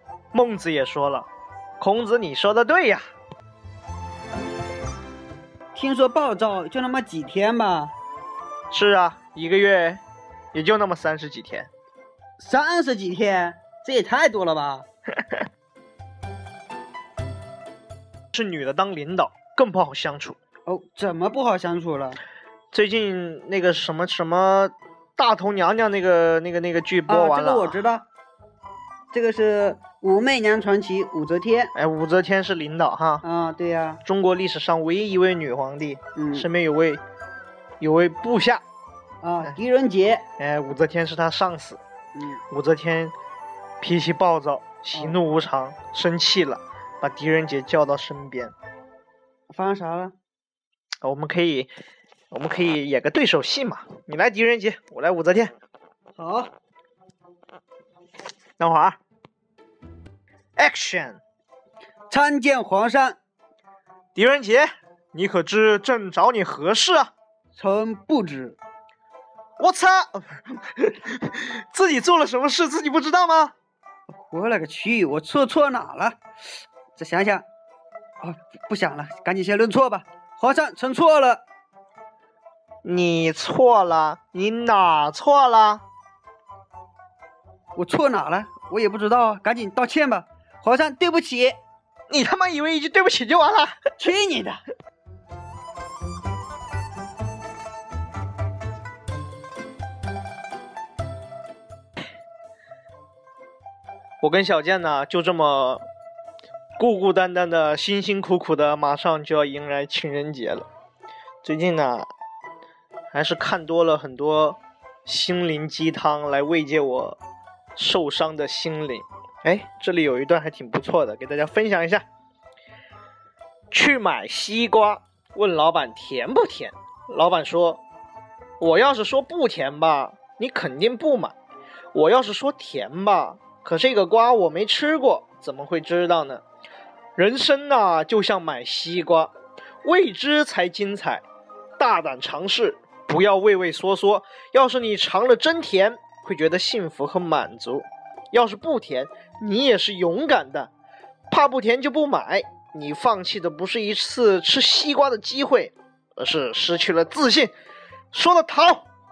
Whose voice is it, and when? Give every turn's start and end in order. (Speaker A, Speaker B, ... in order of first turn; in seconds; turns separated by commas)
Speaker A: 0.3-1.3, Speaker A: 1.8-3.1, Speaker B: 5.7-7.9, Speaker A: 8.7-10.0, Speaker A: 10.5-11.7, Speaker B: 12.4-14.8, Speaker A: 18.3-20.4, Speaker B: 20.7-22.2, Speaker A: 22.7-27.8, Speaker B: 27.1-28.1, Speaker B: 29.1-31.7, Speaker A: 31.8-33.2, Speaker B: 33.2-34.0, Speaker A: 34.0-37.0, Speaker B: 36.2-36.5, Speaker A: 37.8-38.6, Speaker B: 39.2-40.2, Speaker A: 40.4-41.8, Speaker B: 42.1-42.4, Speaker A: 42.5-43.1, Speaker A: 43.8-48.5, Speaker B: 49.5-50.1, Speaker A: 51.0-51.7, Speaker A: 52.3-55.5, Speaker B: 56.2-56.5, Speaker A: 58.6-59.0, Speaker A: 60.6-61.2, Speaker B: 62.1-63.2, Speaker A: 64.2-67.1, Speaker B: 67.5-68.6, Speaker A: 69.6-73.5, Speaker B: 74.1-76.2, Speaker B: 77.0-77.5, Speaker B: 78.2-81.4, Speaker A: 82.8-85.8, Speaker B: 87.8-91.6, Speaker A: 92.1-93.8, Speaker B: 94.0-94.6, Speaker A: 104.2-105.9, Speaker A: 106.8-110.7, Speaker A: 111.4-112.1, Speaker A: 113.1-117.2, Speaker A: 117.8-122.0, Speaker A: 123.7-127.8, Speaker A: 128.6-131.3, Speaker A: 131.9-136.4, Speaker A: 137.2-139.3, Speaker A: 139.8-141.2, Speaker A: 141.8-150.7, Speaker A: 151.3-157.5, Speaker A: 158.1-158.9